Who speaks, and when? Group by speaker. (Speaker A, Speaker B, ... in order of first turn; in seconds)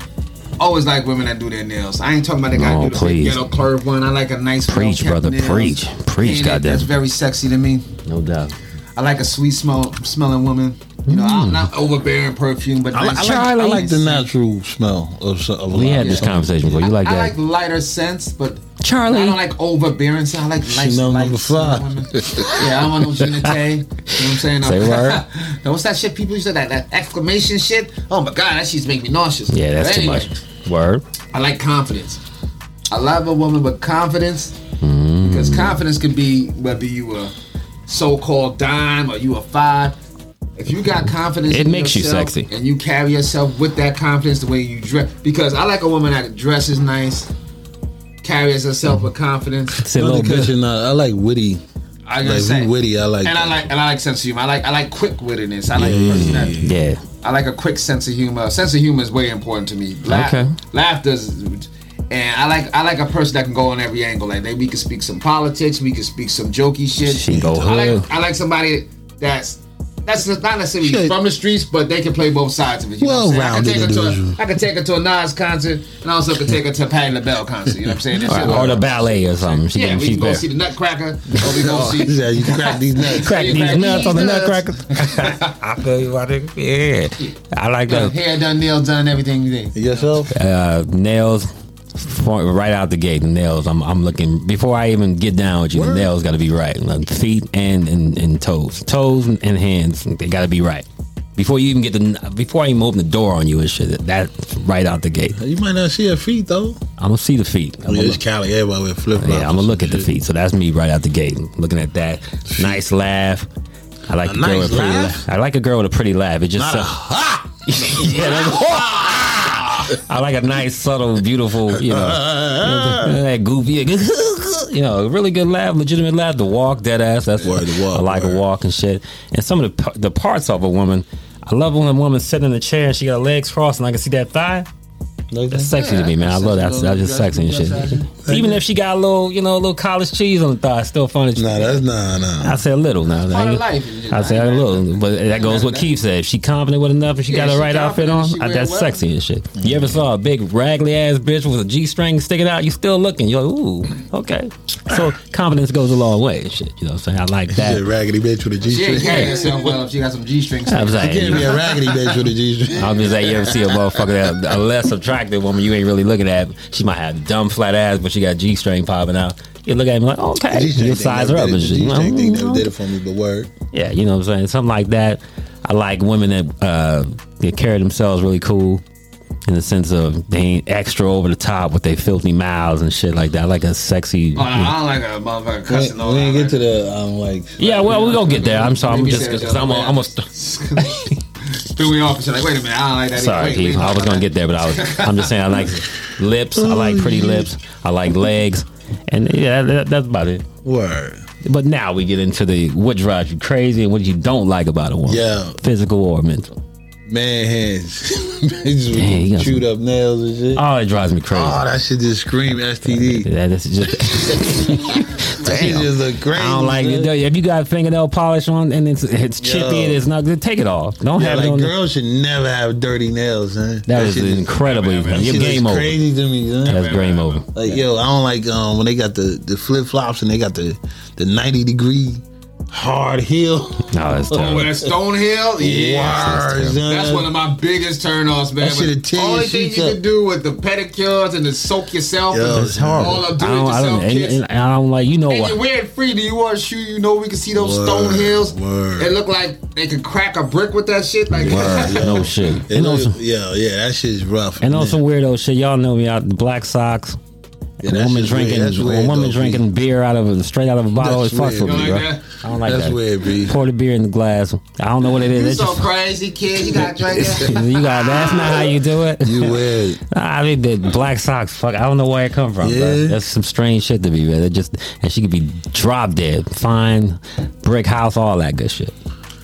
Speaker A: 0.6-7.9, 8.9-14.2, 16.0-30.3, 31.3-32.2, 32.9-34.6, 35.2-37.3, 37.9-40.0, 40.6-47.3, 48.2-49.8, 52.1-56.6, 57.2-85.5, 87.9-90.0, 135.8-138.0, 143.3-145.9, 147.3-149.0, 158.7-161.6, 184.4-186.6, 187.6-195.3, 224.6-225.5, 226.7-227.4, 234.3-244.4, 245.3-252.2, 261.6-262.2, 265.2-268.7
Speaker B: 2.5-3.4, 4.7-6.9, 8.1-8.5, 11.1-11.7, 13.2-13.8, 15.7-17.3, 18.8-19.4, 24.6-25.2, 29.5-31.0, 34.8-35.8, 41.5-42.5, 49.8-50.5, 55.8-57.0, 60.0-60.5, 67.0-68.0, 78.2-80.4, 83.1-88.1, 90.3-105.4, 107.0-108.2, 109.2-113.5, 114.1-116.9, 117.7-134.7, 135.5-141.8, 142.4-157.8, 159.0-159.4, 160.7-161.6, 162.7-172.7, 173.7-178.8, 179.5-184.8, 187.6-190.2, 190.8-191.2, 193.2-200.4, 201.4-206.5, 208.9-209.6, 210.5-211.6, 213.0-221.7, 223.9-225.9, 226.7-227.7, 233.9-234.7, 236.1-236.8, 242.5-245.6, 251.4-253.2, 254.6-257.2, 257.8-265.9, 267.4-278.9
Speaker C: 12.9-16.5, 20.6-22.6, 49.9-51.6, 52.2-53.7, 55.7-56.8, 67.3-67.7, 70.8-71.2, 73.0-74.4, 78.2-78.9, 81.4-84.0, 89.7-90.4, 95.7-96.1, 105.4-106.8, 107.9-110.1, 112.5-112.8, 114.2-115.2, 116.6-120.0, 121.7-123.2, 127.4-128.4, 135.3-138.6, 141.4-142.6, 149.6-150.0, 157.5-159.7, 161.0-164.1, 170.5-173.5, 185.7-187.7, 196.5-197.5, 200.6-201.2, 205.1-205.6, 207.1-210.6, 211.3-213.3, 213.9-217.1, 219.4-220.0, 221.2-224.6, 225.1-226.9, 227.5-234.9, 235.6-237.3, 238.6-240.0, 242.3-243.3, 247.5-249.1, 251.3-255.0, 257.8-259.6, 261.0-262.0, 262.6-263.6, 266.7-267.6, 269.2-270.0, 272.6-273.2